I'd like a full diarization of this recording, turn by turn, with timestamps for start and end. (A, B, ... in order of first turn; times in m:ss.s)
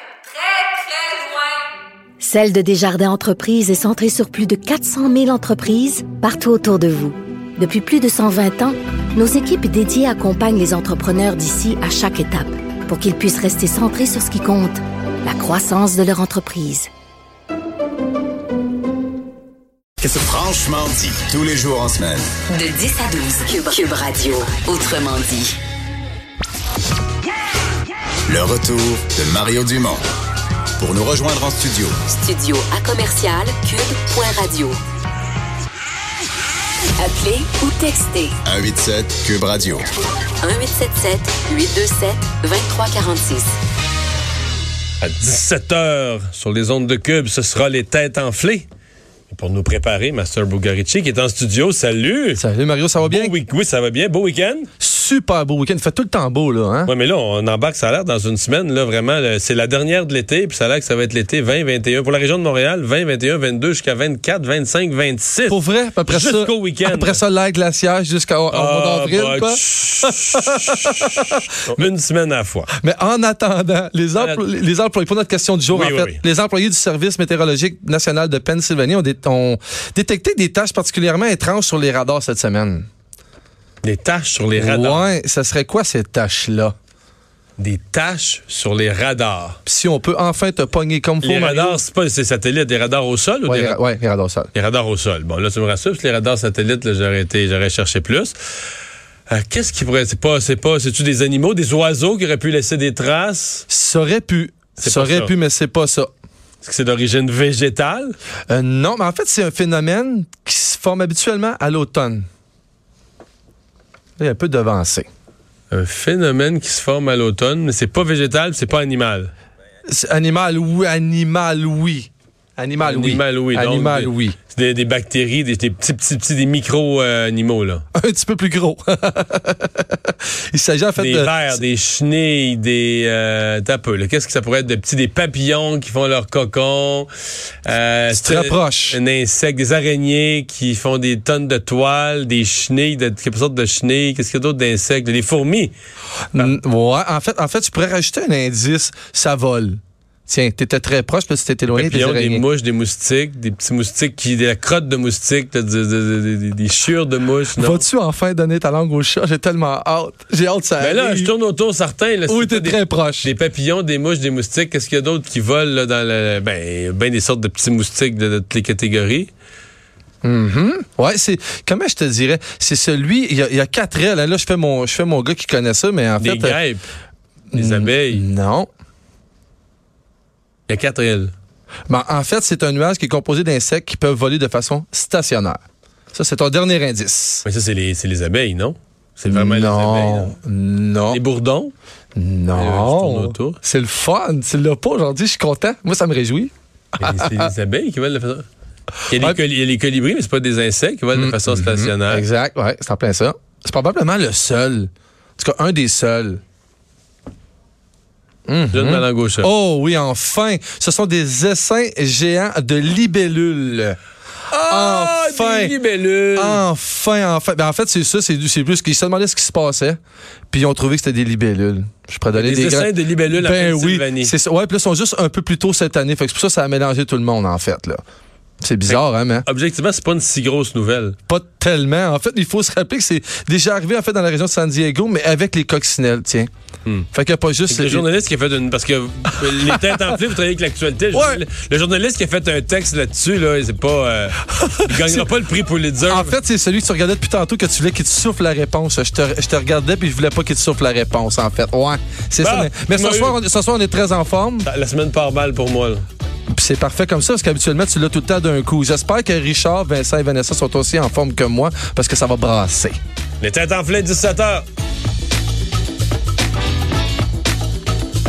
0:00.6-0:01.2 A
0:02.2-0:16.9 A
0:20.0-0:22.3 B
0:22.5-0:25.5 C
0:28.3-0:30.0 B
0:30.8-0:32.1 B
0:32.2-0:34.8 C
0:37.0-0:38.3 C
0:38.4-0:39.9 B
0:40.4-0:43.4 C
0:45.0-0:48.7 D
0:49.3-0:52.4 D
0:52.4-0:53.3 E
0:53.0-0:54.7 D
0:54.8-0:56.9 E
0:56.9-1:07.2 D
1:05.5-1:11.9 E
1:08.5-1:12.7 D
1:12.7-1:22.9 E
1:15.7-1:16.2 D
1:23.8-1:25.1 D
1:24.6-1:26.7 E
1:27.6-1:29.6 D
1:29.7-1:31.8 E
1:31.2-1:33.8 D
1:33.5-1:34.5 E
1:34.5-1:38.4 D
1:39.3-1:43.6 D
1:43.7-1:46.1 E
1:44.8-1:45.3 D
1:46.6-1:48.2 D
1:48.5-1:52.2 E
1:54.2-1:55.1 E
1:55.7-1:59.3 D
1:59.9-2:04.4 E
2:02.8-2:07.8 D
2:07.9-2:11.6 E
2:11.0-2:17.1 D
2:17.6-2:25.7 D
2:18.1-2:19.0 E
2:26.3-2:32.4 E
2:31.7-2:37.8 D
2:37.5-2:41.3 E
2:40.8-2:49.3 D
2:42.3-2:43.3 E
2:50.2-2:56.6 E
2:56.2-2:56.8 D
2:57.5-2:58.7 E
2:57.5-2:58.2 D
3:00.7-3:01.3 D
3:01.9-3:05.6 E
3:06.1-3:07.4 E
3:07.4-3:10.3 D
3:09.3-3:11.2 E
3:11.1-3:11.7 D
3:12.2-3:17.5 E
3:12.6-3:13.6 D
3:17.0-3:18.5 D
3:19.0-3:22.2 D
3:19.1-3:19.4 E
3:21.1-3:26.4 E
3:28.5-3:34.0 E
3:28.7-3:29.5 D
3:34.5-3:36.6 D
3:34.7-3:35.8 E
3:36.4-3:40.0 E
3:40.5-3:48.0 E
3:42.4-3:44.3 D
3:48.6-3:49.5 E
3:48.9-3:51.2 D
3:51.3-3:56.5 E
3:57.1-3:58.0 E
3:57.7-4:06.4 D
3:59.4-4:00.1 E
4:01.1-4:01.4 E
4:04.5-4:05.3 E
4:06.1-4:14.7 E
4:12.4-4:13.4 D
4:14.6-4:16.1 D
4:16.5-4:23.0 E
4:23.4-4:24.7 D